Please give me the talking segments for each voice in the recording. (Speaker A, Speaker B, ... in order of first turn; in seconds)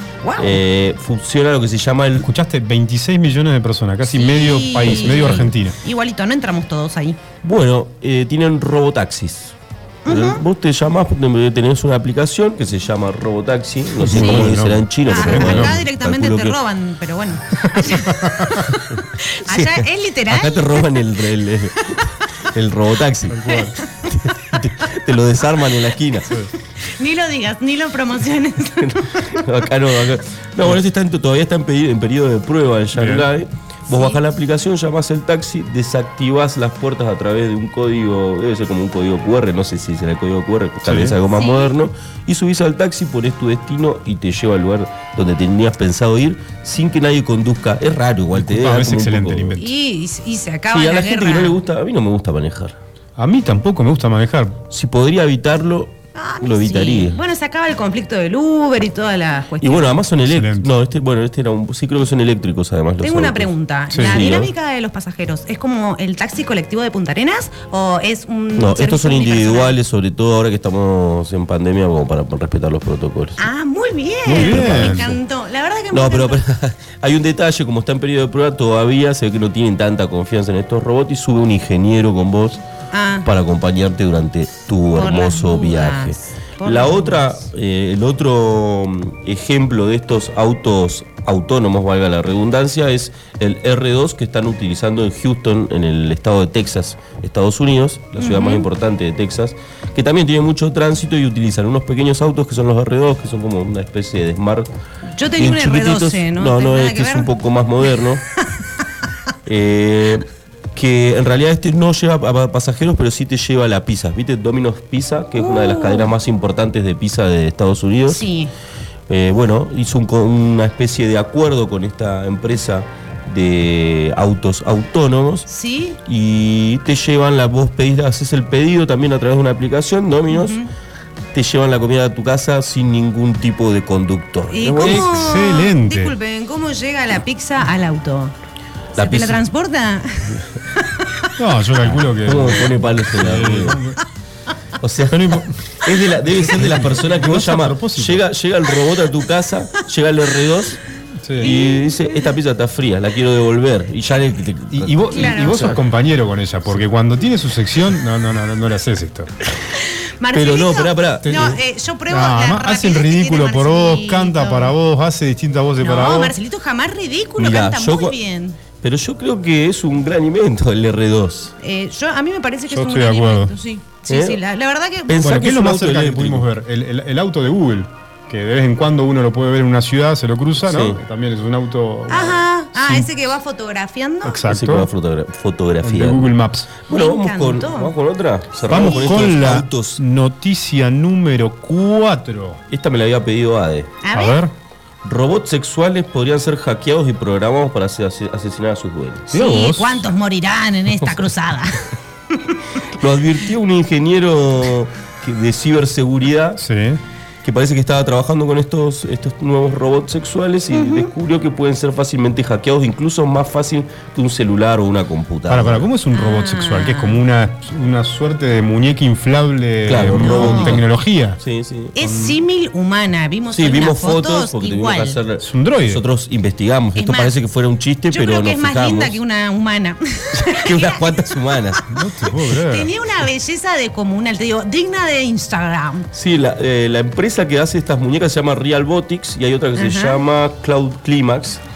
Speaker A: 0.2-0.6, 4.0-7.2, 10.1-10.4, 14.1-14.5, 15.1-21.1, 23.5-24.2, 26.8-29.4, 33.9-34.2, 41.3-41.7, 49.6-51.6, 56.1-60.0, 63.0-69.8, 73.4-76.4, 82.9-83.3, 84.9-87.3, 98.2-98.6, 105.1-107.3, 115.3-116.1, 118.1-118.5, 125.5-126.0, 130.3-130.7, 134.5-138.3, 139.0-141.3, 151.4-152.3, 155.1-155.6, 159.7-164.7, 165.8-168.6, 171.6-175.2, 182.1-184.4, 186.9-187.9, 194.0-194.4, 199.3-201.8, 202.3-202.6, 210.7-211.1, 216.1-217.2, 220.0-220.8, 221.9-225.2, 226.9-227.3, 228.1-231.0, 232.4-236.1, 239.8-240.2
Speaker B: 0.4-2.3, 4.8-5.5, 7.4-9.5, 10.1-16.6, 19.5-23.5, 24.1-26.3, 28.8-49.6, 50.7-52.8, 54.7-57.2, 59.6-63.5, 64.0-64.5, 68.6-73.4, 74.3-75.2, 75.9-82.6, 83.2-104.7, 105.4-108.2, 109.5-118.2, 119.1-125.5, 126.0-130.6, 131.3-135.3, 138.9-139.4, 141.8-143.8, 144.8-150.8, 151.4-155.8, 160.3-161.6, 167.4-168.2, 168.8-171.5, 174.1-174.4, 175.1-176.4, 180.6-181.0, 184.5-186.3, 186.9-190.0, 192.7-193.9, 195.0-199.3, 202.9-206.6, 207.4-215.8, 219.8-220.9, 221.4-221.9, 223.5-229.2, 230.3-231.8, 236.1-241.6
Speaker C: 2.2-5.8, 14.0-15.8, 17.6-18.6, 23.3-23.8, 32.9-33.3, 40.8-41.1, 48.3-49.7, 53.2-54.6, 60.2-60.7, 63.9-64.3, 74.2-75.0, 134.8-136.1, 141.4-144.0, 145.1-145.6, 146.4-148.2, 151.2-151.5, 154.7-159.3, 162.1-166.3, 172.7-173.5, 175.2-183.1, 184.2-184.9, 185.8-186.7, 188.7-192.6, 194.1-194.5, 199.3-200.1, 206.6-207.0, 215.5-221.4, 222.0-222.4, 225.4-226.0, 231.9-232.9